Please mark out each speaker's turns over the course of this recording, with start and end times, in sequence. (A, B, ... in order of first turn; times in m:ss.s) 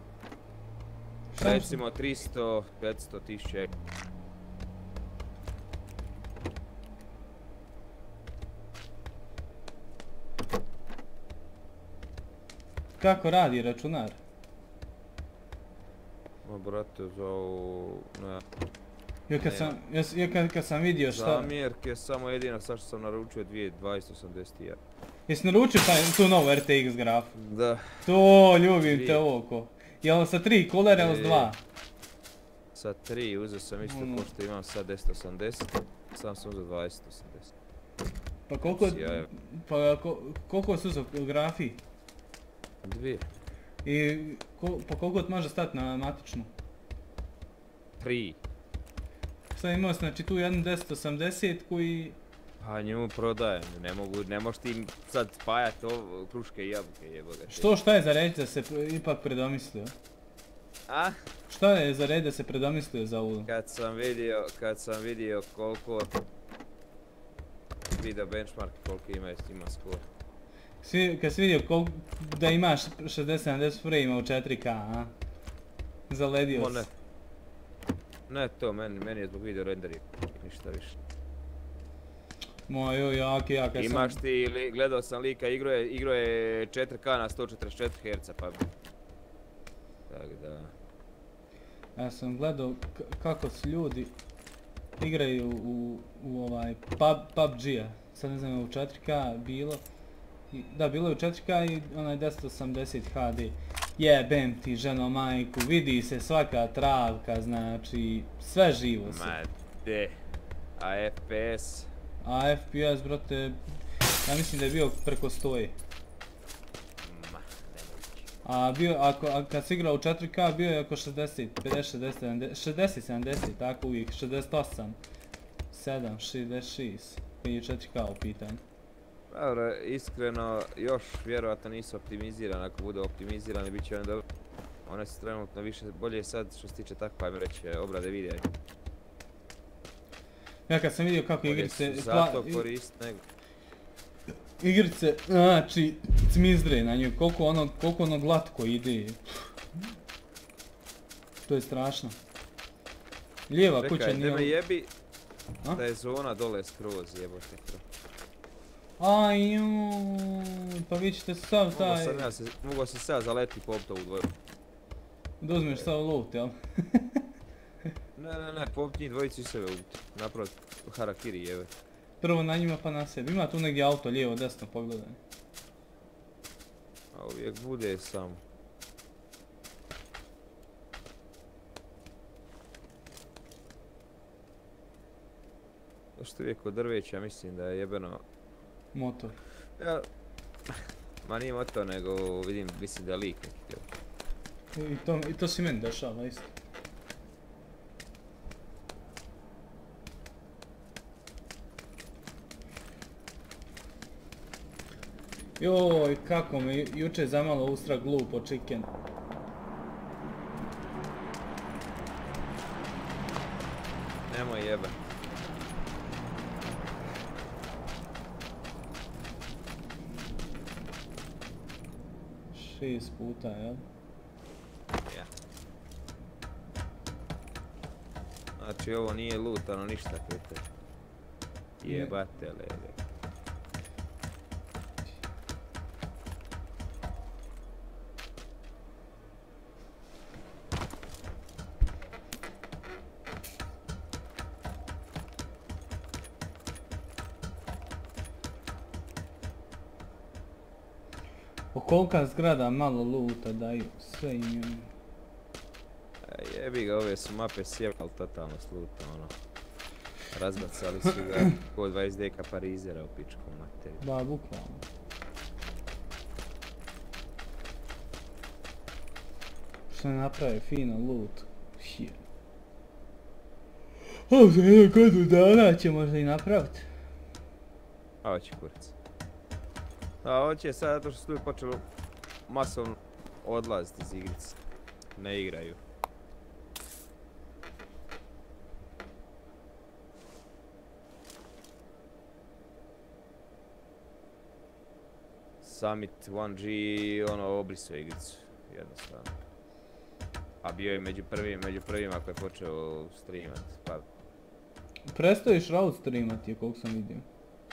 0:01.3-0:01.8 A
0:01.4-0:03.7 B
0:13.0-0:14.2 A
0:16.4-0:18.4 B
0:19.3-0:21.5 A
0:19.4-0:19.7 B
0:21.1-0:24.8 B
0:25.3-0:27.3 A
0:27.3-0:28.0 B
0:28.0-0:31.6 A
0:28.9-0:29.2 B
0:30.9-0:31.5 B
0:32.7-0:37.5 B
0:33.8-0:34.3 A
0:38.5-0:41.8 A
0:38.6-0:39.3 B
0:42.8-0:43.3 B
0:43.8-0:46.5 A
0:48.0-0:48.4 B
0:49.5-0:52.2 A
0:52.6-0:57.7 B
0:57.5-0:59.9 A
1:00.9-1:01.2 B
1:01.5-1:03.5 A
1:03.5-1:06.1 B
1:07.9-1:10.0 B
1:10.8-1:15.1 A
1:16.1-1:16.9 A
1:16.5-1:16.9 B
1:18.3-1:21.0 B
1:22.7-1:24.2 A
1:23.8-1:28.7 B
1:30.1-1:30.7 B
1:32.0-1:34.1 A
1:35.0-1:39.8 A
1:40.5-1:49.4 A
1:49.0-1:50.2 B
1:50.8-1:51.9 B
1:52.2-1:53.6 A
1:54.2-1:55.8 A
1:57.0-1:58.3 B
1:58.4-2:05.0 A
2:05.7-2:08.6 A
2:09.3-2:14.2 B
2:14.8-2:18.5 B
2:20.7-2:22.6 A
2:21.4-2:23.2 B
2:24.6-2:29.9 A
2:31.4-2:32.2 A
2:33.5-2:34.5 A
2:33.7-2:34.9 B
2:35.7-2:37.8 B
2:39.0-2:42.3 A
2:41.7-2:44.3 B
2:45.4-2:47.2 A
2:48.2-2:51.7 B
2:52.2-2:55.2 A
2:57.1-2:58.4 B
3:06.2-3:08.2 B
3:08.9-3:09.4 A
3:09.8-3:10.1 B
3:10.7-3:13.8 B
3:14.7-3:16.5 A
3:25.6-3:28.9 A
3:34.3-3:35.0 B
3:42.5-3:43.8 A
3:48.6-3:50.6 B
3:51.8-3:53.0 B
3:51.8-3:52.1 A
4:11.7-4:14.9 A
4:16.2-4:19.3 B
4:20.3-4:24.0 B
4:24.0-4:24.8 A
4:29.9-4:32.2 A
4:34.3-4:36.9 A
4:38.2-4:38.9 B
4:40.2-4:41.8 B
4:42.5-4:44.6 B
4:45.2-4:45.8 B
4:55.6-4:59.4 B
5:00.6-5:04.0 B
5:05.1-5:07.2 A